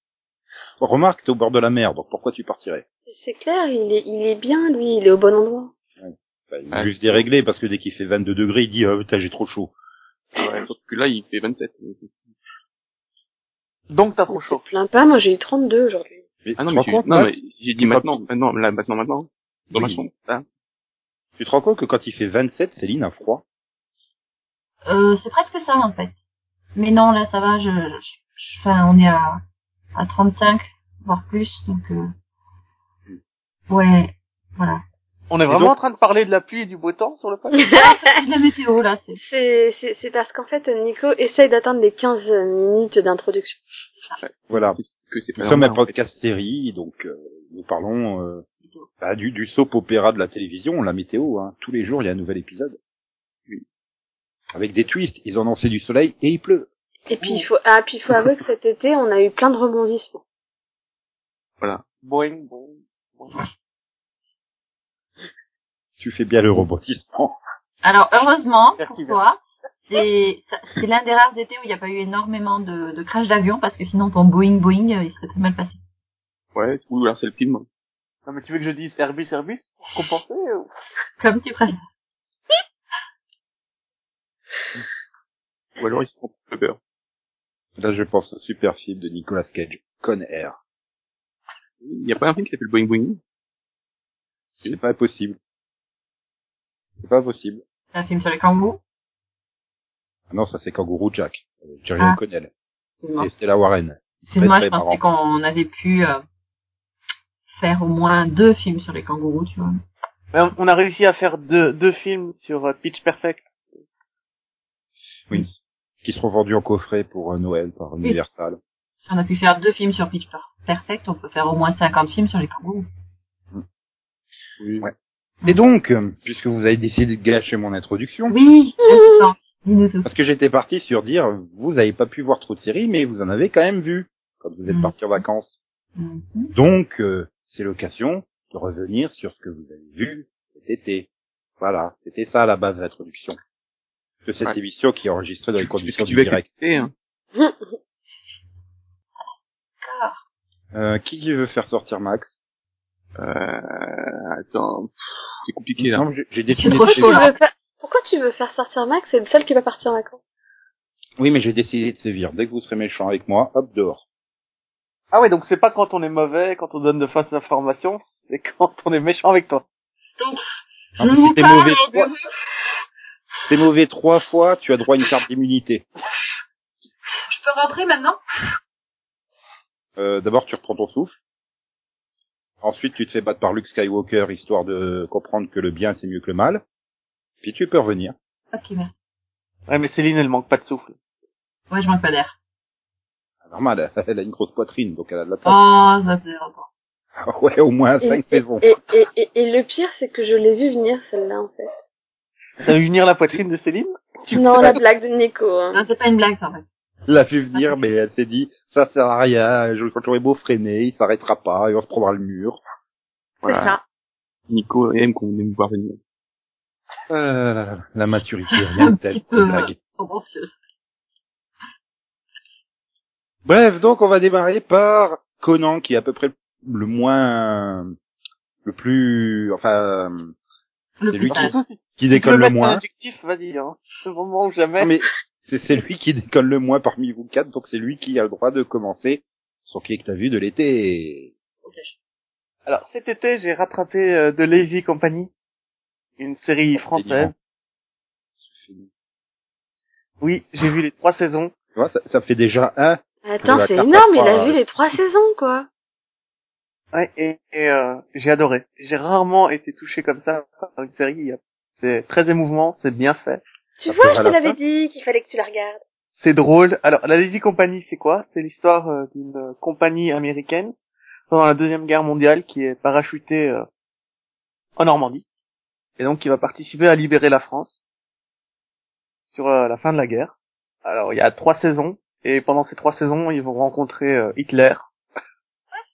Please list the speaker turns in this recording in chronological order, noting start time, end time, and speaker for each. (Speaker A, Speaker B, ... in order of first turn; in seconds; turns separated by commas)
Speaker A: 0.8-2.9, Speaker B: 3.1-5.7, Speaker A: 6.0-9.7, Speaker C: 6.7-7.3, Speaker C: 10.4-12.3, Speaker A: 10.4-10.7, Speaker D: 13.9-14.6, Speaker B: 14.4-16.2, Speaker A: 16.4-18.3, Speaker C: 16.6-20.4, Speaker A: 19.8-20.0, Speaker A: 21.4-23.4, Speaker E: 24.9-26.1, Speaker E: 26.8-29.4, Speaker E: 29.9-32.1, Speaker E: 33.7-34.8, Speaker D: 35.3-37.8, Speaker B: 37.6-37.9, Speaker E: 37.7-39.2, Speaker B: 39.2-43.6, Speaker C: 44.2-45.9, Speaker A: 44.5-44.8, Speaker A: 45.4-48.4, Speaker A: 49.0-52.8, Speaker A: 54.5-56.7, Speaker B: 57.1-60.2, Speaker D: 62.0-63.4, Speaker A: 66.0-67.3, Speaker E: 67.8-75.8, Speaker D: 68.8-69.2, Speaker C: 76.5-77.7, Speaker D: 78.3-80.7, Speaker E: 81.2-81.8, Speaker C: 85.8-86.8, Speaker A: 87.8-90.6, Speaker C: 91.8-93.2, Speaker A: 94.5-95.4, Speaker A: 97.0-97.6, Speaker E: 97.9-98.8, Speaker A: 100.3-102.5, Speaker E: 103.0-103.3, Speaker A: 103.2-105.0, Speaker E: 104.3-106.2, Speaker E: 107.6-109.7, Speaker D: 110.3-113.5, Speaker A: 116.0-118.6, Speaker E: 119.1-122.9, Speaker C: 124.6-124.9, Speaker A: 124.8-128.3, Speaker E: 125.5-125.7, Speaker E: 128.3-130.1, Speaker A: 130.1-135.6, Speaker E: 134.7-135.2, Speaker E: 136.0-136.5, Speaker A: 136.5-141.1, Speaker A: 141.6-143.4, Speaker A: 144.2-146.5, Speaker C: 145.6-146.9, Speaker B: 147.3-147.8, Speaker E: 149.8-150.2, Speaker A: 150.7-152.3, Speaker C: 153.2-156.1, Speaker A: 155.8-157.3, Speaker E: 156.6-157.4, Speaker B: 156.9-160.2, Speaker A: 161.2-164.0, Speaker D: 165.1-169.6, Speaker A: 171.0-172.1, Speaker E: 171.0-172.2, Speaker A: 173.5-175.8, Speaker E: 177.3-178.2, Speaker A: 180.0-181.2, Speaker A: 182.6-186.6, Speaker A: 187.4-188.2, Speaker E: 188.5-188.9, Speaker D: 189.7-191.0, Speaker E: 191.7-192.3, Speaker A: 193.5-195.6, Speaker E: 195.4-196.7, Speaker A: 197.2-198.7, Speaker B: 198.0-201.7, Speaker D: 202.6-204.8, Speaker B: 204.3-205.8, Speaker E: 205.7-206.7, Speaker A: 207.1-212.6, Speaker E: 207.5-207.8, Speaker E: 213.4-213.8, Speaker C: 213.4-213.8, Speaker C: 214.5-216.0, Speaker A: 217.1-219.7, Speaker E: 218.5-220.5, Speaker A: 223.4-227.9, Speaker A: 228.7-230.3, Speaker E: 231.0-231.6, Speaker A: 231.1-232.8, Speaker D: 231.2-234.9, Speaker A: 234.8-241.3, Speaker E: 241.6-241.9, Speaker D: 242.7-245.3, Speaker D: 246.2-247.3, Speaker A: 246.8-247.3, Speaker A: 248.4-248.9, Speaker D: 250.2-251.5, Speaker A: 251.8-254.6, Speaker B: 253.2-255.7, Speaker D: 256.9-263.4, Speaker B: 263.8-265.8, Speaker A: 263.9-264.6, Speaker D: 266.2-270.7, Speaker D: 271.3-273.7, Speaker D: 274.8-275.3, Speaker D: 276.0-277.8, Speaker D: 279.3-280.3, Speaker D: 280.9-284.9